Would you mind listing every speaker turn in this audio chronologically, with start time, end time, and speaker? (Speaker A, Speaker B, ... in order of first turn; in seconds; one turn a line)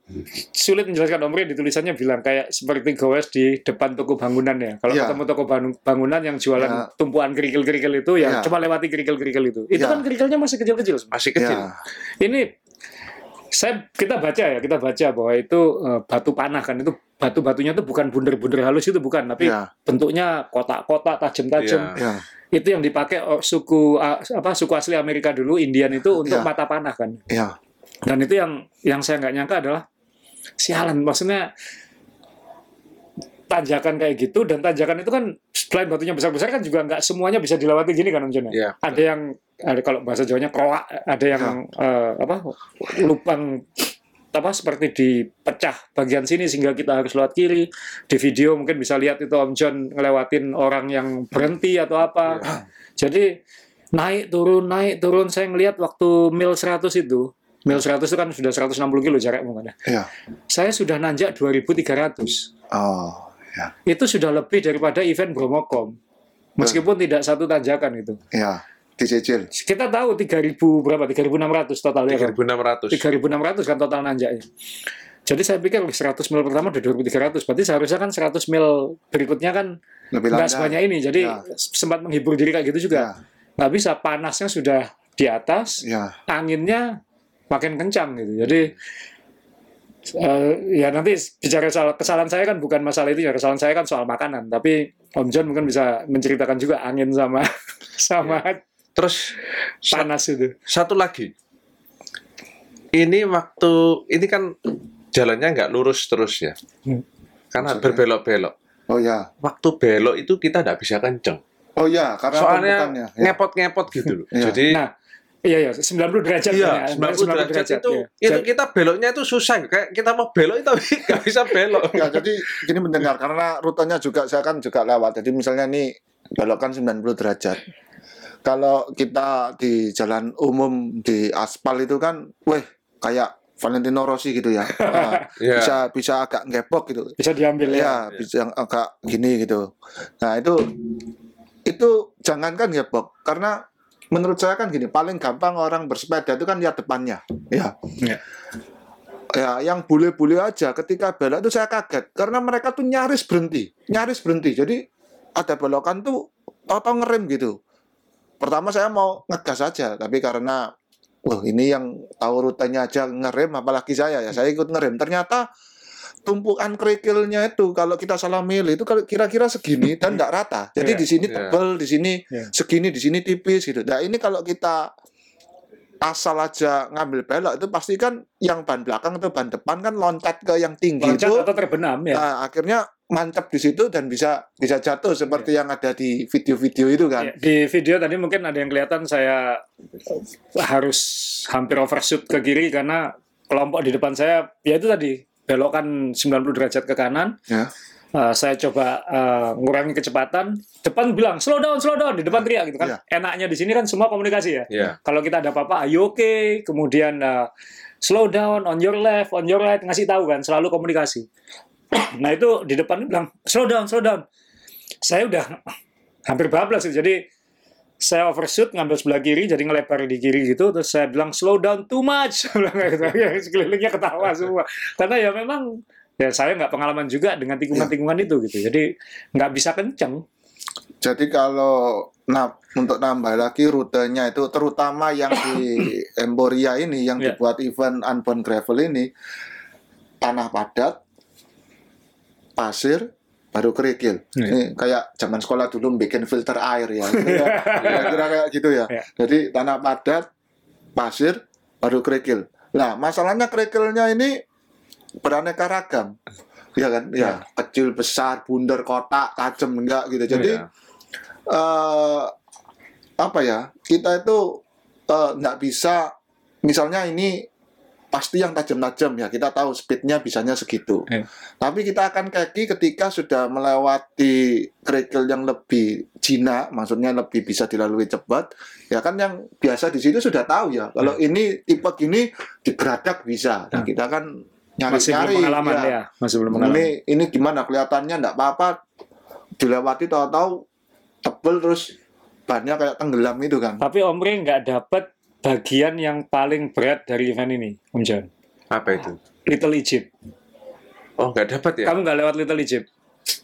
Speaker A: 0.5-11.1
Speaker B: 4.9-5.2
Speaker B: 6.6-6.9
Speaker B: 8.2-8.5
Speaker B: 9.7-10.0
Speaker C: 11.1-11.7
Speaker B: 11.4-11.8
Speaker A: 12.2-12.5
Speaker A: 13.5-21.9
Speaker B: 19.4-19.7
Speaker C: 21.6-22.0
Speaker B: 22.0-22.2
Speaker A: 22.5-27.2
Speaker B: 26.2-26.5
Speaker B: 27.3-27.6
Speaker A: 28.1-29.8
Speaker A: 30.6-31.5
Speaker A: 33.5-53.3
Speaker C: 38.5-39.0
Speaker A: 53.9-59.7
Speaker A: 60.5-62.5
Speaker B: 62.7-63.7
Speaker A: 63.9-66.0
Speaker A: 66.6-68.2
Speaker B: 68.3-69.5
Speaker A: 69.5-72.4
Speaker C: 72.1-73.0
Speaker A: 72.9-74.5
Speaker A: 75.3-79.7
Speaker B: 80.1-81.4
Speaker A: 80.3-87.0
Speaker B: 85.8-86.2
Speaker A: 87.5-88.7
Speaker A: 90.1-98.6
Speaker C: 99.0-100.1
Speaker A: 99.9-100.5
Speaker C: 100.7-101.3
Speaker C: 102.9-106.6
Speaker C: 107.5-108.5
Speaker B: 107.6-108.0
Speaker B: 108.9-109.3
Speaker C: 109.4-111.4
Speaker B: 111.8-113.4
Speaker C: 112.3-114.8
Speaker B: 114.3-114.6
Speaker A: 115.5-118.5
Speaker C: 116.5-122.3
Speaker B: 121.9-127.6
Speaker B: 128.4-140.8
Speaker A: 134.7-135.2
Speaker C: 135.4-135.8
Speaker A: 137.2-138.0
Speaker B: 141.7-143.6
Speaker B: 144.1-147.7
Speaker B: 149.3-154.8
Speaker B: 155.4-157.6
Speaker B: 158.4-160.7
Speaker B: 161.2-165.5
Speaker B: 166.2-174.9
Speaker A: 170.8-171.1
Speaker C: 171.2-171.6
Speaker B: 176.0-181.5
Speaker A: 181.0-182.2
Speaker B: 182.1-187.3
Speaker A: 187.2-197.4
Speaker A: 198.2-207.5
Speaker B: 202.4-203.0
Speaker C: 204.7-205.0
Speaker A: 208.0-211.3
Speaker A: 211.9-214.2
Speaker A: 215.0-215.6
Speaker A: 216.3-217.2
Speaker A: 218.0-225.7
Speaker A: 226.2-230.2
Speaker B: 231.0-239.1
Speaker B: 240.2-241.0
Speaker B: 242.6-250.2
Speaker A: 247.1-248.2
Speaker C: 247.8-248.2
Speaker B: 251.0-254.4
Speaker B: 255.2-256.1
Speaker B: 256.8-260.6
Speaker C: 260.3-260.6
Speaker B: 261.5-262.3
Speaker B: 263.2-266.1
Speaker B: 266.6-267.5
Speaker B: 268.1-271.1
Speaker B: 271.6-285.9
Speaker A: 284.9-286.9
Speaker B: 286.5-288.8
Speaker B: 289.6-290.6
Speaker B: 291.2-291.9
Speaker B: 292.5-293.8
Speaker A: 293.8-298.3
Speaker C: 298.7-299.2
Speaker A: 299.5-300.1
Speaker C: 301.2-301.9
Speaker A: 301.9-302.9